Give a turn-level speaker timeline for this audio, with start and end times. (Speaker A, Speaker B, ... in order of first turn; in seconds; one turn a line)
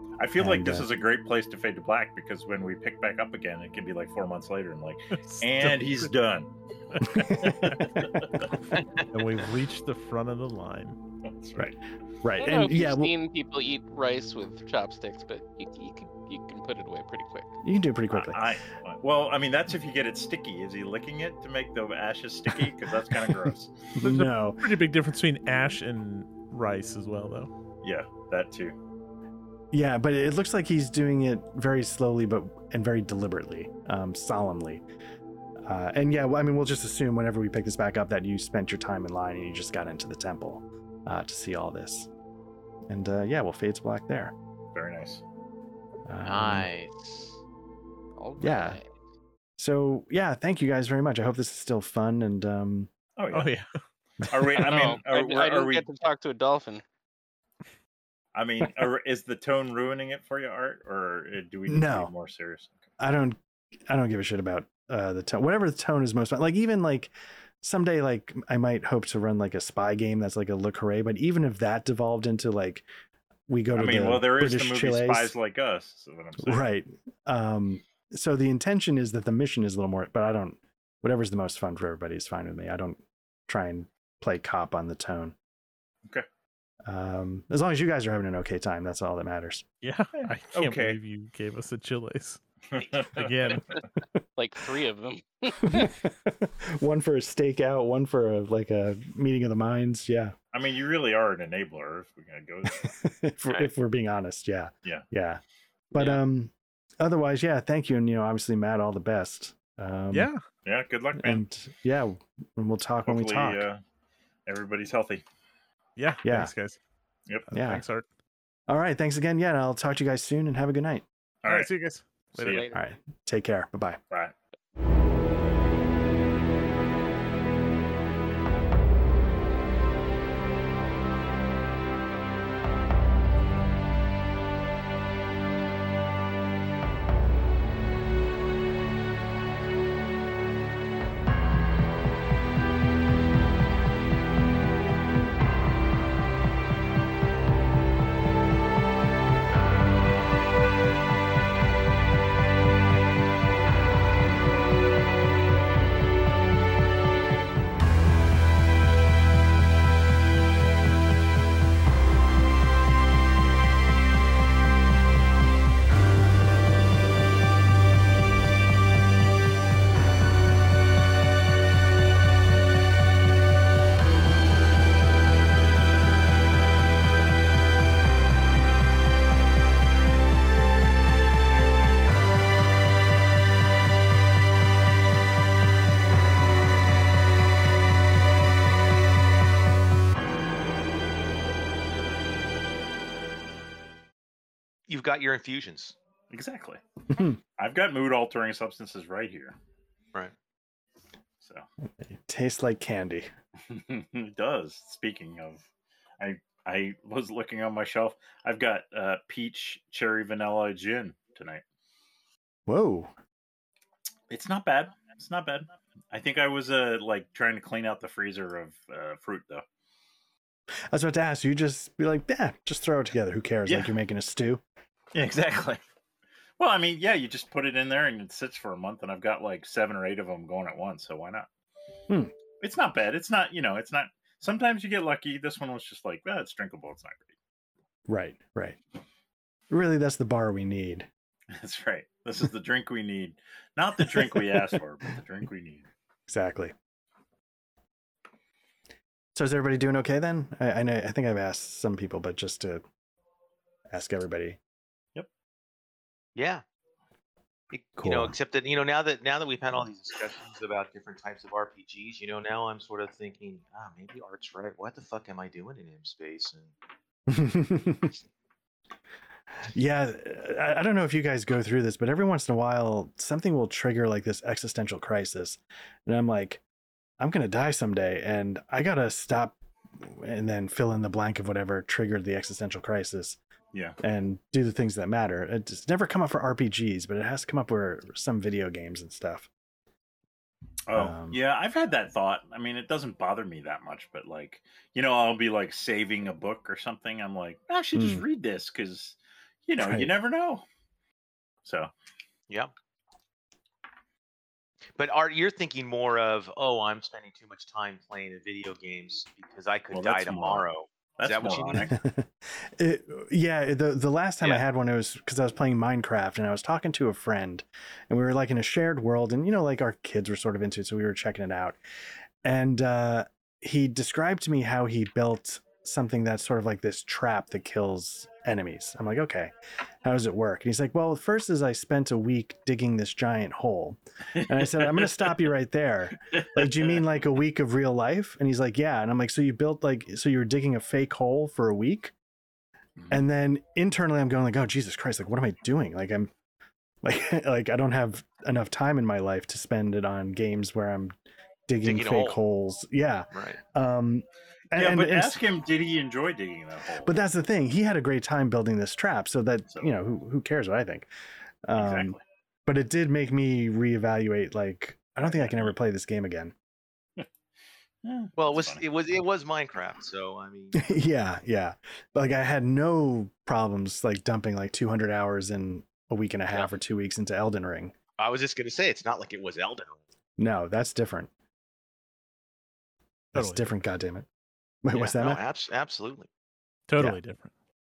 Speaker A: 0.2-8.5
Speaker B: 0.4-0.9
Speaker C: 5.2-6.1
Speaker B: 7.1-7.8
Speaker C: 7.2-8.0
Speaker C: 8.7-11.0
Speaker D: 8.8-9.1
Speaker A: 11.2-11.8
Speaker B: 11.6-13.1
Speaker E: 12.4-17.5
Speaker B: 17.6-18.4
Speaker A: 18.1-23.9
Speaker B: 24.0-24.7
Speaker C: 24.0-27.5
Speaker A: 27.8-28.8
Speaker B: 29.7-34.8
Speaker B: 35.6-42.1
Speaker B: 42.9-44.3
Speaker A: 44.7-45.2
Speaker B: 46.1-46.7
Speaker D: 46.2-47.4
Speaker E: 48.2-48.8
Speaker B: 48.4-48.8
Speaker B: 49.6-52.9
Speaker A: 53.2-53.5
Speaker C: 53.3-53.7
Speaker A: 54.2-55.9
Speaker E: 54.6-56.8
Speaker A: 58.4-62.8
Speaker B: 61.7-62.1
Speaker B: 63.0-72.9
Speaker B: 73.5-75.3
Speaker A: 73.8-76.7
Speaker B: 76.4-85.3
Speaker B: 86.8-89.7
Speaker C: 89.8-92.4
Speaker A: 90.2-91.0
Speaker A: 92.7-93.6
Speaker C: 93.1-93.8
Speaker E: 94.4-96.0
Speaker B: 95.6-100.3
Speaker A: 100.5-103.0
Speaker B: 102.7-105.4
Speaker B: 105.9-110.3
Speaker C: 110.1-110.4
Speaker A: 110.7-111.4
Speaker B: 111.2-113.7
Speaker A: 113.0-113.8
Speaker A: 114.5-115.2
Speaker C: 116.0-116.8
Speaker B: 116.2-116.5
Speaker C: 117.5-118.0
Speaker B: 117.5-117.8
Speaker B: 118.7-121.0
Speaker A: 121.4-121.7
Speaker C: 121.5-122.7
Speaker A: 122.4-122.7
Speaker B: 122.7-124.0
Speaker D: 194.9-195.9
Speaker A: 196.3-196.8
Speaker B: 197.1-197.4
Speaker A: 197.6-199.6
Speaker A: 201.4-201.7
Speaker B: 202.0-203.3
Speaker A: 203.7-205.7
Speaker A: 206.2-211.6
Speaker B: 212.7-213.1
Speaker A: 214.3-219.6
Speaker B: 220.9-224.6
Speaker A: 223.7-224.0
Speaker A: 225.1-225.8
Speaker A: 226.6-231.5
Speaker B: 232.1-232.3
Speaker A: 232.6-237.3
Speaker B: 238.1-238.8
Speaker B: 239.7-241.1
Speaker A: 241.5-245.9
Speaker B: 244.2-244.4
Speaker B: 246.3-246.7
Speaker B: 249.3-252.8
Speaker B: 253.9-254.6
Speaker D: 256.4-256.6
Speaker D: 257.7-266.8
Speaker B: 258.0-258.4
Speaker B: 267.3-268.1
Speaker B: 269.7-276.6
Speaker B: 277.2-283.4
Speaker A: 283.7-284.0
Speaker B: 284.0-289.5
Speaker A: 290.9-300.7
Speaker B: 290.9-291.4
Speaker B: 297.9-298.3
Speaker B: 299.8-300.1
Speaker A: 301.6-301.9
Speaker D: 305.0-311.9
Speaker A: 309.9-310.7
Speaker A: 311.2-312.0
Speaker B: 311.9-321.8
Speaker B: 322.4-329.5
Speaker B: 330.0-342.1
Speaker A: 334.4-335.2
Speaker A: 336.3-336.7
Speaker B: 343.1-346.3
Speaker B: 347.0-351.1
Speaker B: 351.7-355.4
Speaker D: 351.8-352.4
Speaker D: 353.3-353.6
Speaker A: 354.7-357.1
Speaker B: 357.0-361.1
Speaker B: 361.6-366.5
Speaker A: 361.8-362.2
Speaker A: 365.2-365.7
Speaker A: 368.0-368.8
Speaker D: 368.4-371.0
Speaker B: 370.8-377.9
Speaker D: 378.2-380.0
Speaker B: 380.4-381.3
Speaker B: 383.3-384.3
Speaker C: 383.4-383.7
Speaker B: 384.8-385.4
Speaker D: 384.9-386.3
Speaker C: 386.9-387.5